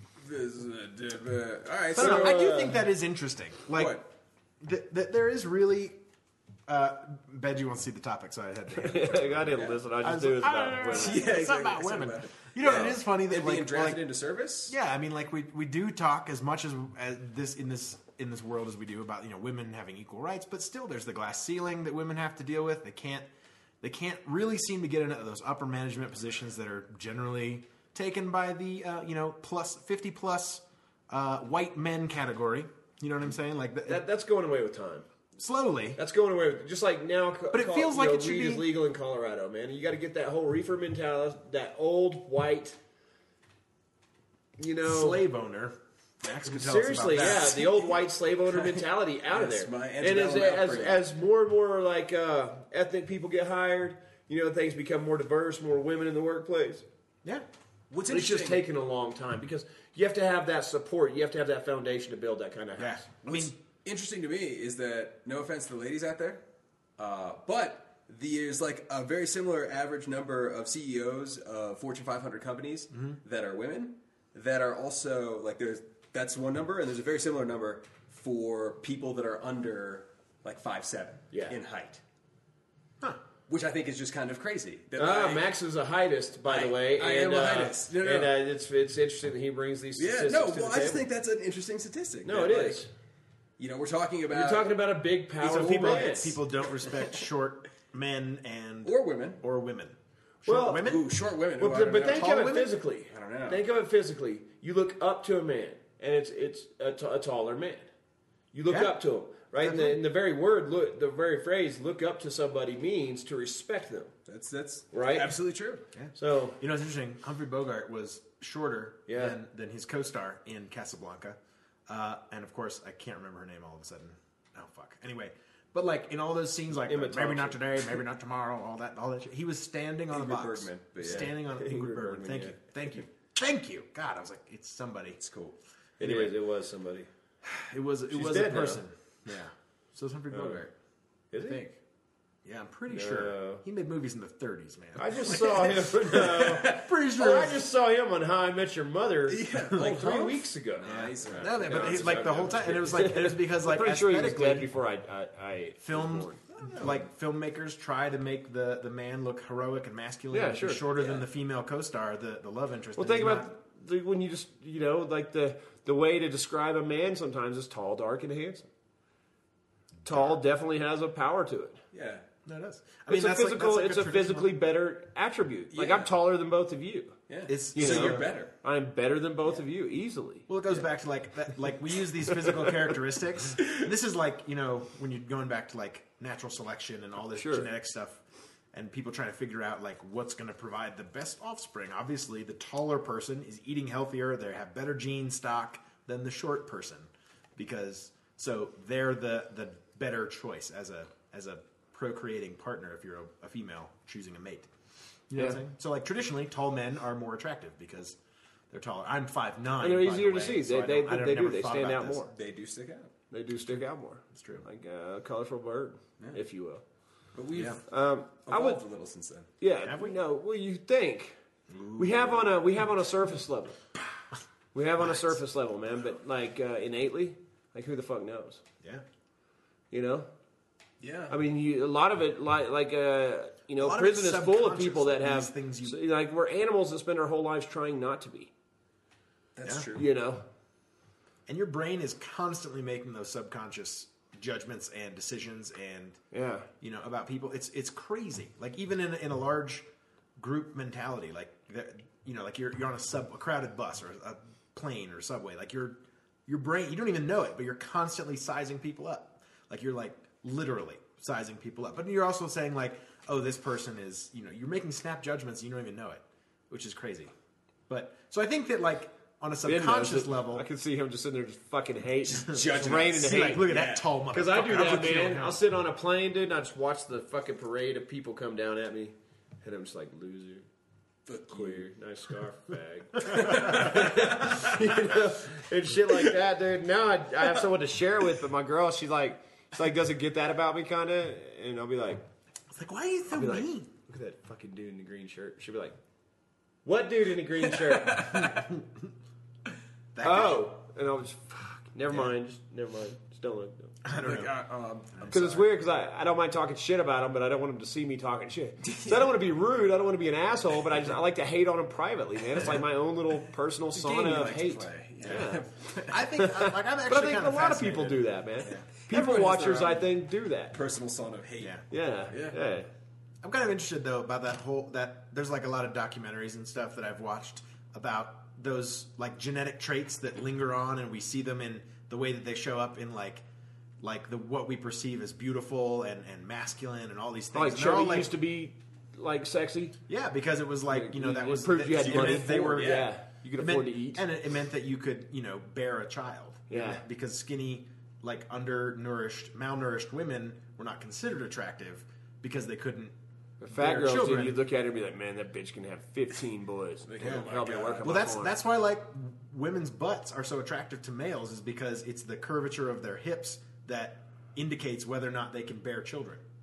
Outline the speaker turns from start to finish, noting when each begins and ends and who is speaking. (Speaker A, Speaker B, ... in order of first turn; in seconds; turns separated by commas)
Speaker A: 0.2-2.4, Speaker B: 1.9-4.1, Speaker C: 1.9-2.9, Speaker A: 3.7-4.0, Speaker B: 4.6-6.0, Speaker B: 6.7-14.0, Speaker C: 8.7-11.5, Speaker A: 9.5-9.8, Speaker A: 10.9-14.7, Speaker B: 14.7-23.3, Speaker B: 23.8-34.0, Speaker C: 33.9-35.0, Speaker B: 35.4-36.0, Speaker C: 36.0-42.8, Speaker B: 37.5-38.7, Speaker C: 44.6-45.2, Speaker B: 44.8-47.9, Speaker C: 46.4-56.8, Speaker A: 48.5-51.0, Speaker A: 57.9-58.6, Speaker C: 58.1-63.1, Speaker B: 62.8-63.5, Speaker A: 63.2-66.4, Speaker A: 67.0-82.0, Speaker C: 81.3-81.6, Speaker A: 83.5-85.5, Speaker C: 85.0-91.0, Speaker A: 86.5-88.3, Speaker A: 90.0-92.8, Speaker C: 92.2-92.9, Speaker A: 93.6-94.8, Speaker C: 94.3-96.3, Speaker B: 95.4-101.2, Speaker A: 95.4-97.1, Speaker A: 98.8-99.4, Speaker C: 100.5-100.9, Speaker A: 100.8-103.6, Speaker C: 101.6-107.9, Speaker B: 102.1-102.7, Speaker C: 108.5-114.1, Speaker B: 108.7-109.0, Speaker B: 109.6-110.0, Speaker A: 114.2-115.8, Speaker C: 114.9-115.3, Speaker B: 115.9-135.2, Speaker C: 116.1-116.6, Speaker C: 119.1-119.4, Speaker C: 126.8-127.6, Speaker A: 130.1-131.3, Speaker C: 131.1-132.6, Speaker A: 135.2-135.6, Speaker C: 136.0-137.1, Speaker B: 136.0-136.3, Speaker B: 137.4-140.7, Speaker C: 138.1-138.8, Speaker C: 140.3-140.6, Speaker C: 141.3-141.7, Speaker B: 141.4-141.7, Speaker B: 142.4-145.8, Speaker C: 142.9-143.6, Speaker C: 145.0-156.4, Speaker A: 145.3-146.9, Speaker B: 146.6-147.6, Speaker A: 149.3-152.9, Speaker B: 150.9-154.7, Speaker B: 155.8-163.5, Speaker A: 156.5-157.0, Speaker C: 160.3-160.8, Speaker A: 160.9-161.2, Speaker C: 162.9-168.7, Speaker B: 170.0-170.4, Speaker C: 170.0-171.8, Speaker A: 171.9-172.2, Speaker B: 172.4-174.6, Speaker C: 173.1-177.2, Speaker A: 175.7-176.1, Speaker A: 177.3-178.5, Speaker B: 177.5-178.3, Speaker C: 177.7-180.5, Speaker B: 180.5-188.2, Speaker A: 182.3-183.0, Speaker C: 187.3-187.7, Speaker B: 188.7-204.7, Speaker B: 205.3-208.2, Speaker B: 208.7-212.3, Speaker C: 209.8-212.3, Speaker A: 212.3-213.1, Speaker C: 213.3-216.8, Speaker B: 214.3-214.6, Speaker A: 217.3-217.8, Speaker B: 217.5-217.8, Speaker C: 217.9-218.8, Speaker A: 218.4-219.5, Speaker C: 219.6-221.4, Speaker B: 219.8-220.2, Speaker B: 221.7-222.5, Speaker C: 221.9-223.8, Speaker C: 224.7-228.6, Speaker B: 225.0-225.4, Speaker C: 229.9-230.3, Speaker A: 231.0-231.3, Speaker C: 231.3-238.5, Speaker B: 233.8-236.0, Speaker A: 239.6-240.0, Speaker C: 239.9-240.4, Speaker B: 241.5-246.2, Speaker C: 246.3-246.7, Speaker B: 246.8-249.9, Speaker B: 250.4-267.3, Speaker B: 267.9-270.6, Speaker C: 269.6-273.7, Speaker A: 272.3-274.1, Speaker B: 272.6-275.6, Speaker C: 274.3-280.6, Speaker A: 281.2-281.8, Speaker C: 281.5-292.2, Speaker B: 283.2-283.9, Speaker A: 283.2-284.9, Speaker B: 292.7-293.9, Speaker C: 293.3-295.9, Speaker C: 296.8-298.5, Speaker A: 297.6-298.6, Speaker B: 298.3-299.1, Speaker B: 300.1-300.7, Speaker C: 300.2-303.9, Speaker B: 304.0-304.5, Speaker A: 304.1-305.6, Speaker B: 305.1-305.6, Speaker C: 305.3-315.6, Speaker A: 308.8-309.3, Speaker A: 313.9-316.2, Speaker B: 315.2-315.5, Speaker B: 316.1-318.8, Speaker C: 316.3-320.8, Speaker A: 318.6-320.1, Speaker A: 320.7-321.8, Speaker B: 321.6-321.8, Speaker C: 321.9-322.9, Speaker A: 322.3-322.6, Speaker B: 323.4-333.4, Speaker B: 334.0-338.3, Speaker C: 337.5-339.9, Speaker B: 340.1-353.1, Speaker C: 340.9-344.2, Speaker A: 342.0-343.1, Speaker C: 346.7-347.0, Speaker C: 353.6-358.6, Speaker B: 353.7-354.6, Speaker A: 357.1-358.2, Speaker B: 357.2-357.5, Speaker B: 358.0-366.4